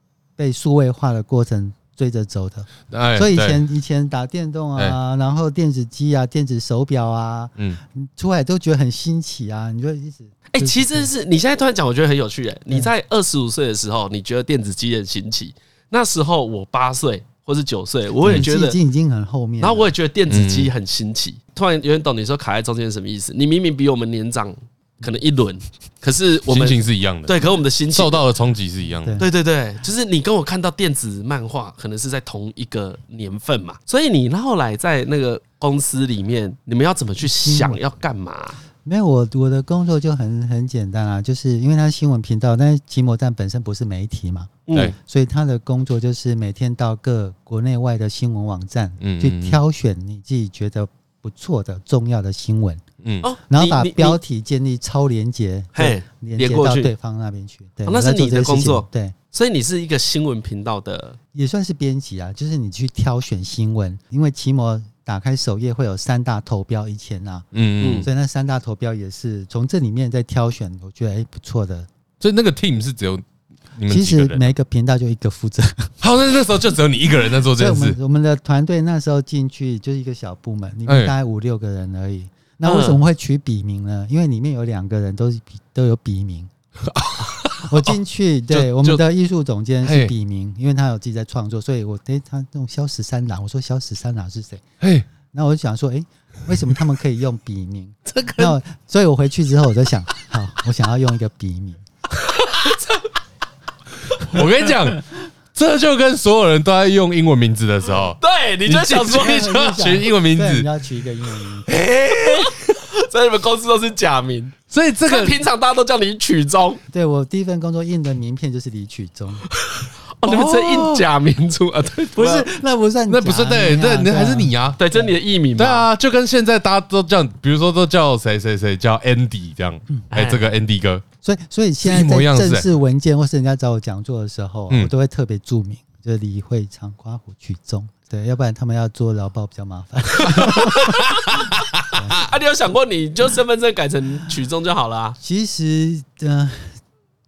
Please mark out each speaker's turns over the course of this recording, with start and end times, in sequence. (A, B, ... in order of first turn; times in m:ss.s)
0:00.4-0:11.1 A
0:02.9-0:03.6 B
0:10.5-0:18.8 C
0:18.2-0:19.9 A
0:19.6-0:28.2 C
0:20.3-0:20.7 B
0:26.5-0:29.2 B
0:29.2-0:38.6 C
0:37.2-0:37.8 A
0:38.8-0:52.8 A
0:44.7-0:45.0 C
0:49.0-0:49.6 B
0:53.0-0:53.3 B
0:53.2-0:54.2 C
0:53.5-0:59.2 A
0:55.7-0:56.9 C
0:57.9-1:01.2 C
1:01.3-1:07.5 A
1:07.5-1:08.1 B
1:07.8-1:08.1 C
1:08.0-1:11.9 A
1:12.2-1:14.5 B
1:13.9-1:15.9 A
1:16.0-1:18.0 B
1:17.6-1:26.5 A
1:20.9-1:21.1 B
1:22.6-1:23.0 C
1:26.9-1:27.9 B
1:27.7-1:34.6 A
1:29.8-1:30.1 B
1:34.8-1:35.1 B
1:35.3-1:41.8 A
1:38.1-1:38.5 C
1:42.1-1:43.1 C
1:44.1-1:44.4 C
1:44.2-1:50.7 B
1:48.2-1:49.6 C
1:49.1-1:51.7 A
1:51.7-1:52.7 B
1:52.1-1:56.8 C
1:54.7-1:55.4 B
1:56.9-1:59.4 A
1:59.6-2:02.5 C
2:00.3-2:01.0 B
2:02.2-2:05.0 A
2:03.1-2:04.8 B
2:04.8-2:05.9 C
2:05.6-2:11.0 B
2:10.1-2:10.4 C
2:11.2-2:21.0 A
2:11.8-2:12.7 B
2:20.2-2:21.5 C
2:21.3-2:22.3 B
2:22.1-2:25.2 C
2:25.2-2:26.8 A